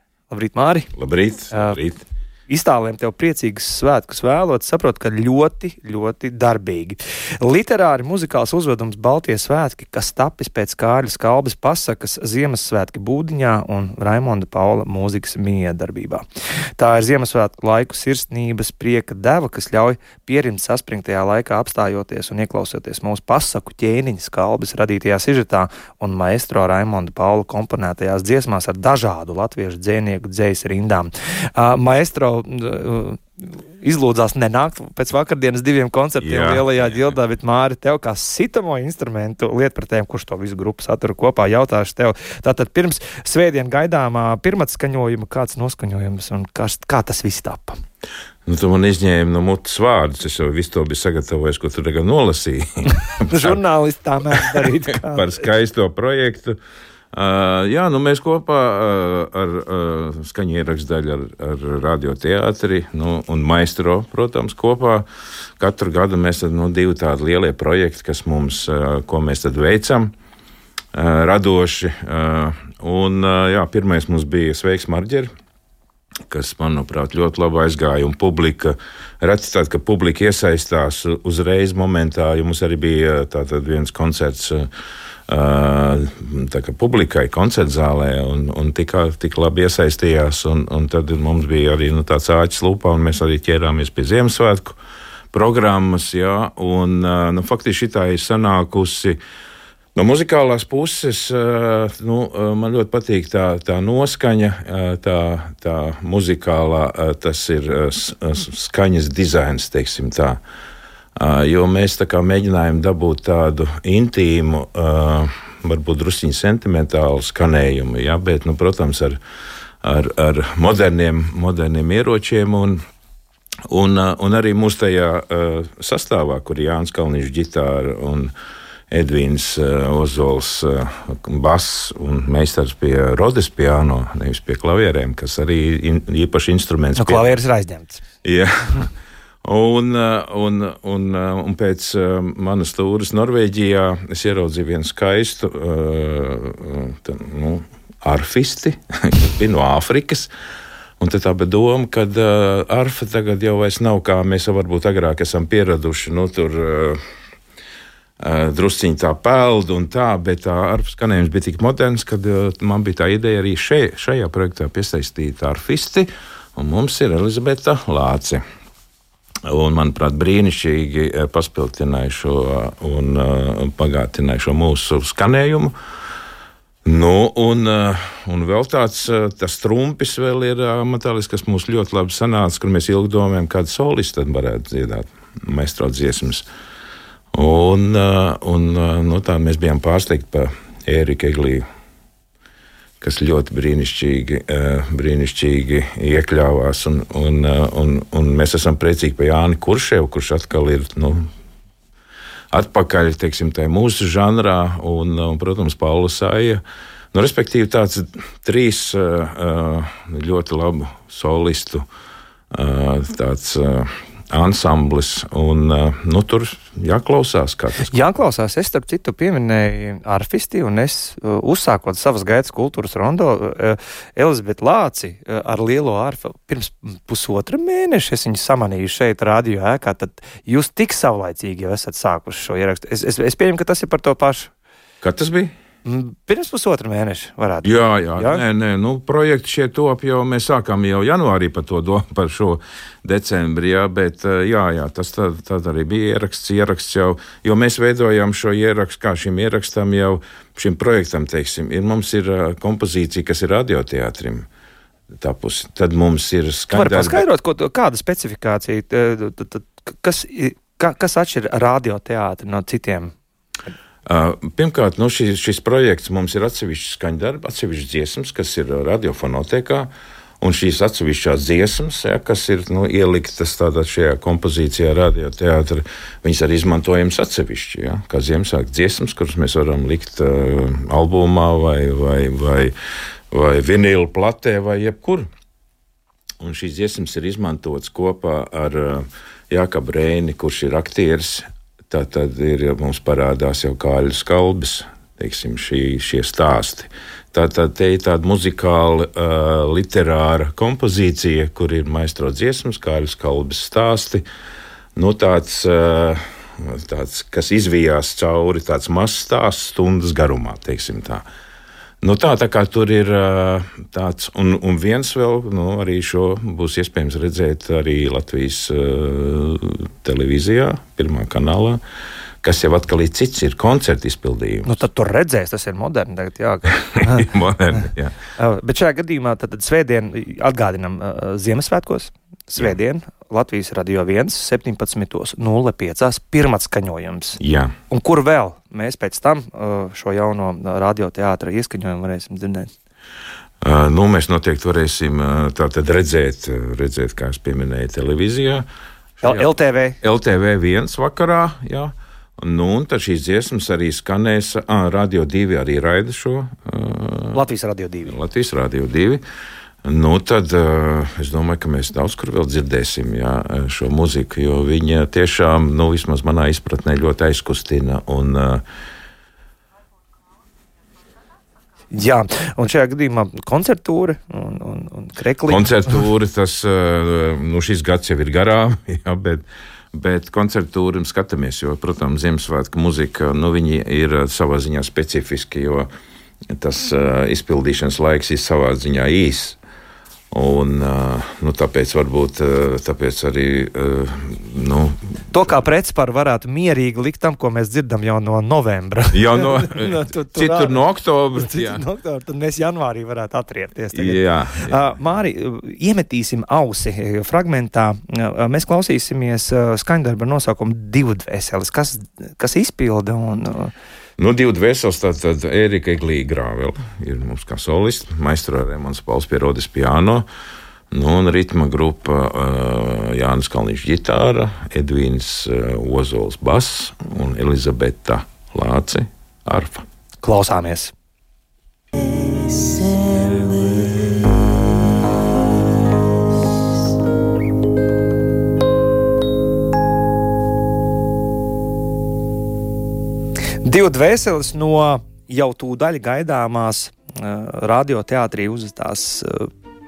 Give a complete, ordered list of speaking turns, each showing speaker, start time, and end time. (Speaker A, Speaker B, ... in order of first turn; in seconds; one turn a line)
Speaker A: 0.3-0.9
Speaker B: 0.9-2.0
Speaker A: 1.5-1.8
Speaker A: 2.5-16.2
Speaker A: 16.8-47.8
Speaker B: 36.2-36.9
Speaker B: 48.5-53.6
Speaker A: 53.2-55.4
Speaker B: 54.3-56.6
Speaker B: 57.1-65.1
Speaker B: 65.6-70.1
Speaker B: 70.9-75.3
Speaker B: 76.3-84.7
Speaker B: 85.3-94.8
Speaker B: 95.3-99.2
Speaker B: 100.0-110.4
Speaker B: 111.2-119.2
Speaker B: 119.8-122.8
Speaker B: 123.7-128.3
Speaker B: 128.9-137.3
Speaker A: 137.0-138.0
Speaker B: 138.2-138.9
Speaker B: 139.4-150.3
Speaker B: 151.0-157.0
Speaker B: 158.2-168.4
Speaker B: 169.5-175.7
Speaker B: 176.9-186.5
Speaker B: 187.3-191.6
Speaker B: 193.0-201.3
Speaker B: 202.5-206.6
Speaker B: 207.1-211.8
Speaker B: 212.5-217.9
Speaker A: 217.9-234.5
Speaker B: 235.0-235.5
Speaker A: 235.8-238.4
Speaker B: 237.6-254.5
Speaker B: 255.2-257.2
Speaker A: 256.7-263.1
Speaker B: 264.1-282.7
Speaker B: 283.3-285.3
Speaker B: 286.4-304.2
Speaker B: 305.0-311.2
Speaker B: 312.0-321.8
Speaker B: 322.4-324.7
Speaker A: 324.7-327.3
Speaker B: 326.9-328.1
Speaker A: 328.4-337.4
Speaker B: 337.4-337.7
Speaker A: 337.9-342.7
Speaker B: 343.6-348.7
Speaker B: 349.2-349.5
Speaker A: 349.2-350.0
Speaker B: 350.0-357.4
Speaker A: 357.3-358.1
Speaker B: 358.1-359.2
Speaker B: 359.8-368.6
Speaker A: 371.9-375.9
Speaker B: 375.5-385.9
Speaker B: 386.5-389.6
Speaker B: 390.3-395.1
Speaker A: 395.3-400.8
Speaker B: 399.1-401.8
Speaker A: 401.4-413.7
Speaker B: 403.9-404.9
Speaker B: 414.2-420.2
Speaker B: 420.9-429.8
Speaker A: 430.2-430.9
Speaker A: 443.6-449.5